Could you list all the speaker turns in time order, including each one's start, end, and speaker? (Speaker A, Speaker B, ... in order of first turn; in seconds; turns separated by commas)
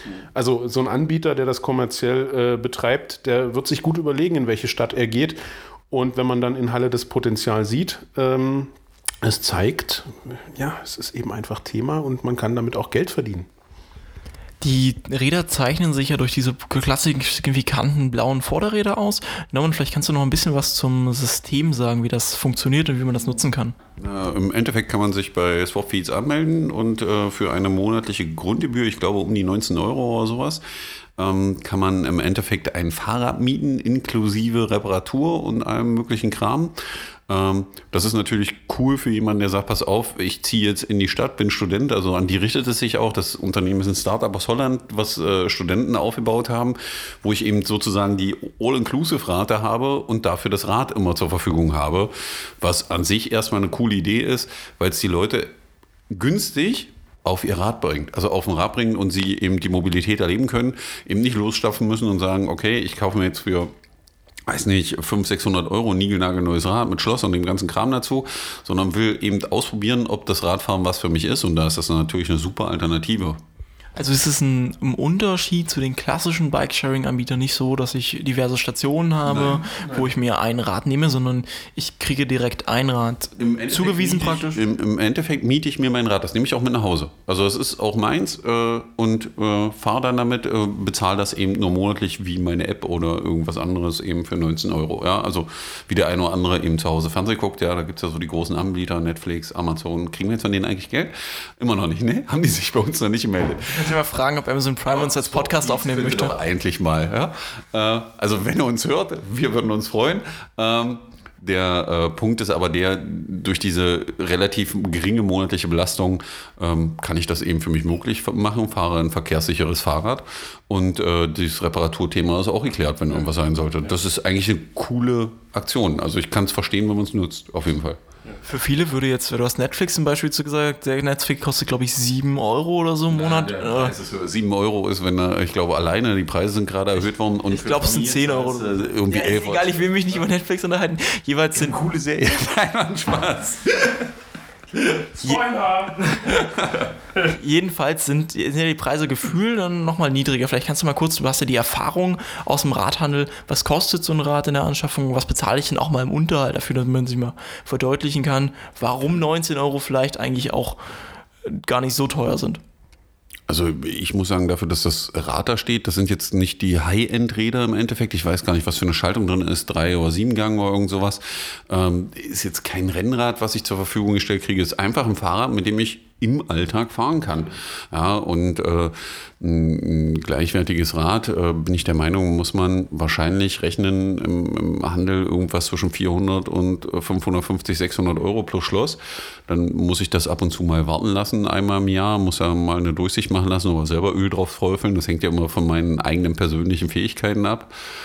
Speaker A: 0.3-5.4, Speaker A: 5.9-13.5, Speaker B: 14.6-23.7, Speaker C: 24.0-30.6, Speaker C: 31.2-36.7, Speaker C: 37.3-55.5, Speaker C: 56.1-63.7, Speaker C: 64.5-73.4, Speaker B: 73.9-84.6, Speaker C: 79.2-79.6, Speaker C: 83.4-104.0, Speaker B: 103.7-106.3, Speaker C: 104.9-128.0, Speaker B: 128.4-133.9, Speaker C: 133.1-140.1, Speaker B: 137.5-141.7, Speaker C: 141.6-144.1, Speaker C: 144.7-145.4, Speaker A: 145.2-146.2, Speaker C: 146.2-146.9, Speaker B: 147.2-160.8, Speaker B: 161.4-162.6, Speaker C: 163.5-197.7